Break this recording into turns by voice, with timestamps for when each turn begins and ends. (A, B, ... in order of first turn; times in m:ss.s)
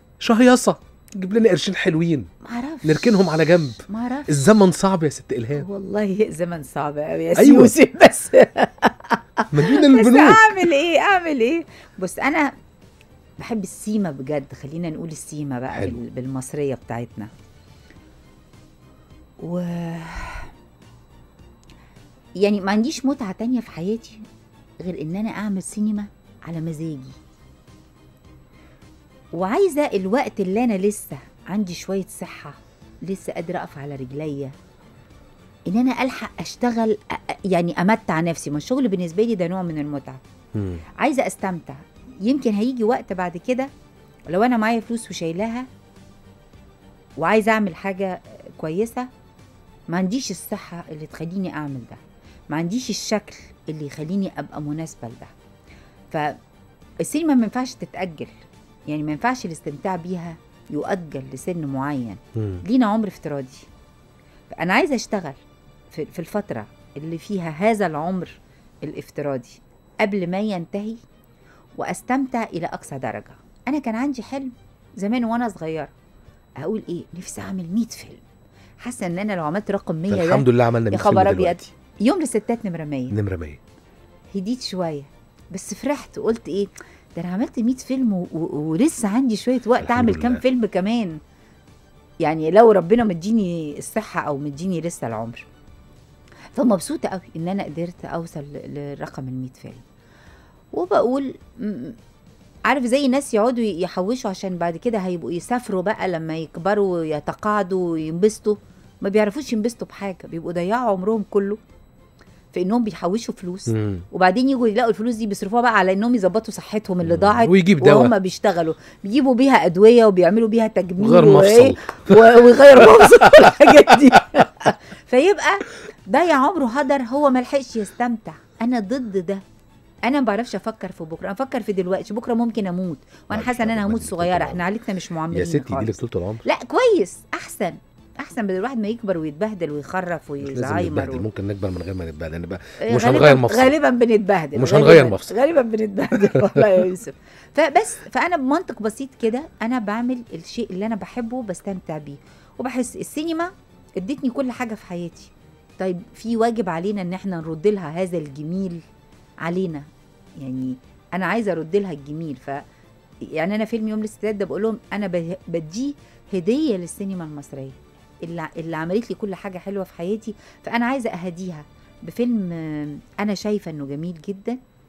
0:00.2-0:02.3 A
0:02.4-0:03.2 B
0:02.8-0:05.6 A
0:03.9-0:04.3 B
0:05.5-0:12.5 B
0:07.4-0:07.7 A
0:09.5-0:10.6 A
0:13.4-0:17.3 B
0:15.7-0:16.0 A
0:19.4-0:20.5 B
0:22.4-0:24.2 B
0:24.8-0:27.2 B
0:29.3-0:34.5 B
0:35.7-0:40.2 B
0:40.5-0:40.8 A
0:41.0-0:43.7 B
0:44.3-0:45.7 B
0:47.2-0:49.1 B
0:49.9-0:55.3 B
0:56.1-0:56.4 B
0:57.0-0:58.3 B
0:58.9-1:03.7 B
1:02.4-1:02.6 A
1:04.5-1:05.4 B
1:05.9-1:11.0 B
1:11.8-1:15.9 B
1:16.6-1:18.2 B
1:18.8-1:23.2 B
1:20.1-1:21.7 A
1:23.1-1:23.6 A
1:24.3-1:31.2 B
1:29.8-1:30.4 A
1:32.2-1:35.4 B
1:36.5-1:39.8 B
1:40.7-1:42.0 B
1:42.7-1:51.6 B
1:52.5-2:09.4 B
1:53.7-1:54.0 A
1:57.0-1:58.1 A
2:01.0-2:04.2 A
2:10.0-2:21.2 B
2:13.3-2:14.6 A
2:15.3-2:16.4 A
2:20.4-2:23.8 A
2:22.8-2:38.8 B
2:24.5-2:25.4 A
2:26.3-2:26.7 A
2:39.4-2:39.8 B
2:40.4-2:42.6 B
2:43.3-2:54.6 B